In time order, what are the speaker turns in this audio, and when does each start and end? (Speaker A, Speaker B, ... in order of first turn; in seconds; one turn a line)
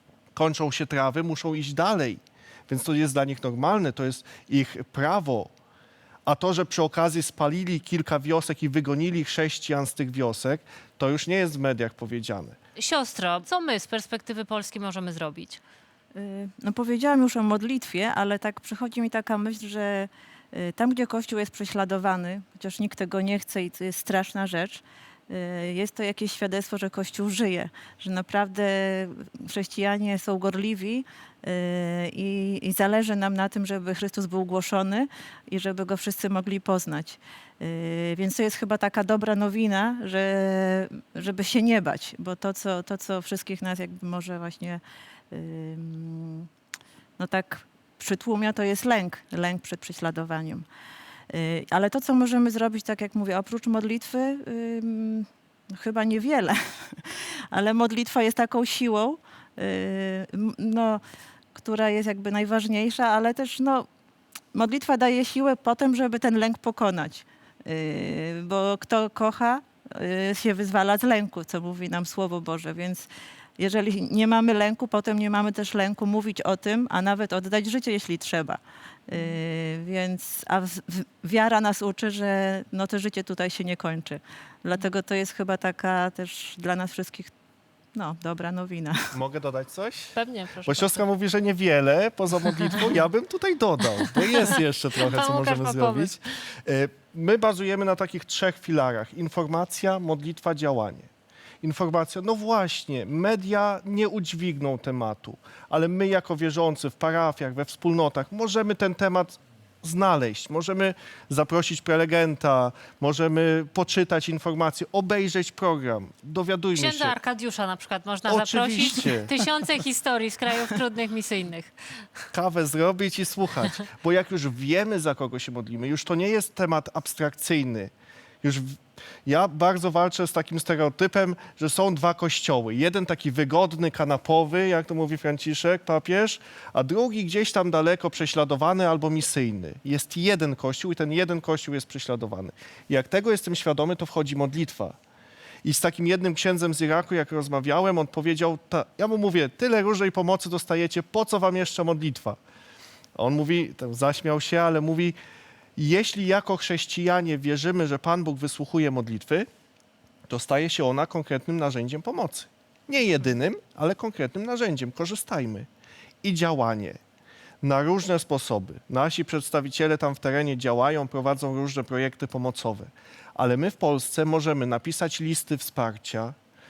Speaker A: 0.3-5.5
Speaker A: 6.2-12.6
Speaker B: 12.8-15.6
Speaker C: 16.1-44.8
Speaker C: 45.3-46.5
Speaker C: 47.2-50.6
Speaker C: 51.3-56.6
Speaker C: 57.5-61.0
Speaker C: 61.5-63.9
Speaker C: 64.5-73.1
Speaker C: 73.6-87.3
Speaker C: 87.9-89.1
Speaker A: 89.1-90.1
Speaker B: 90.1-91.0
Speaker A: 90.6-101.1
Speaker B: 94.5-96.2
Speaker A: 101.6-117.2
Speaker B: 116.8-121.7
Speaker A: 118.2-119.3
Speaker A: 122.3-127.9
Speaker A: 128.4-144.9
Speaker A: 145.6-152.4
Speaker A: 153.2-155.2
Speaker A: 155.8-159.5
Speaker A: 160.3-165.7
Speaker A: 166.2-167.0
Speaker A: 167.6-176.3